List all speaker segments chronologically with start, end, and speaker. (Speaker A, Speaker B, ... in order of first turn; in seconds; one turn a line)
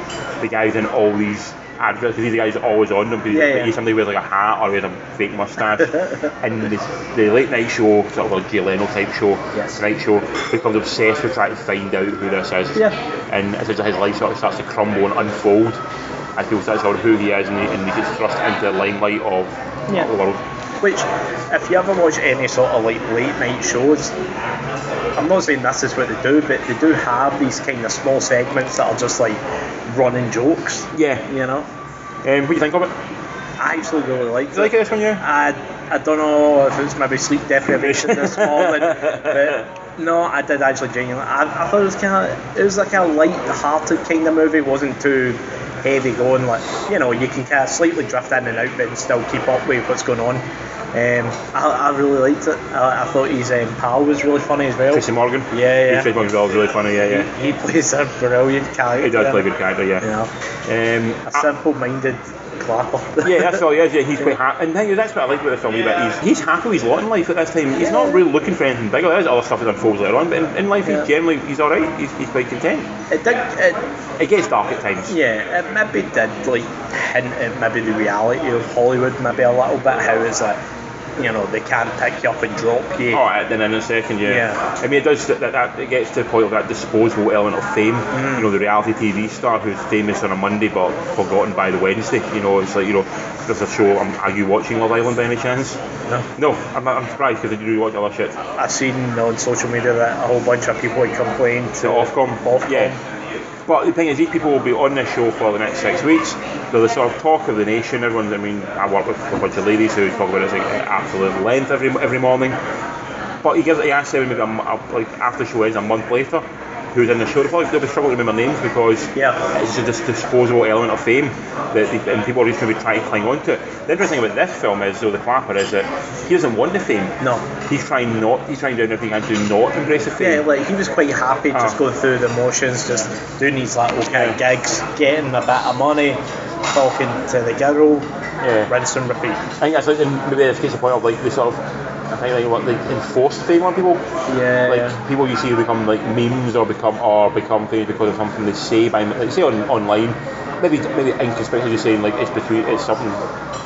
Speaker A: 0.4-15.8
Speaker B: 3.3-3.7
Speaker B: 5.8-6.3
Speaker B: 9.5-9.8
Speaker A: 16.4-20.4
Speaker B: 20.8-24.1
Speaker B: 25.2-31.7
Speaker A: 30.9-31.3
Speaker A: 32.2-33.0
Speaker B: 33.6-56.1
Speaker A: 34.5-35.2
Speaker A: 37.7-39.6
Speaker A: 54.9-57.3
Speaker B: 57.0-59.5
Speaker A: 59.0-60.1
Speaker B: 60.0-60.3
Speaker A: 60.7-61.5
Speaker B: 61.3-63.6
Speaker A: 63.2-72.9
Speaker B: 67.8-68.2
Speaker B: 70.8-71.1
Speaker B: 73.1-73.8
Speaker A: 74.2-75.2
Speaker B: 75.1-80.6
Speaker B: 81.2-83.2
Speaker A: 83.1-95.8
Speaker B: 84.2-84.6
Speaker B: 88.1-88.5
Speaker A: 96.4-98.4
Speaker B: 98.6-103.0
Speaker A: 101.8-103.0
Speaker A: 103.7-112.6
Speaker A: 113.4-127.2
Speaker B: 119.2-119.4
Speaker B: 127.2-127.5
Speaker A: 127.7-130.5
Speaker B: 130.2-138.1
Speaker A: 131.5-131.8
Speaker A: 134.1-134.4
Speaker A: 138.4-138.7
Speaker B: 138.7-139.5
Speaker A: 139.6-144.0
Speaker B: 144.3-145.0
Speaker A: 144.7-153.2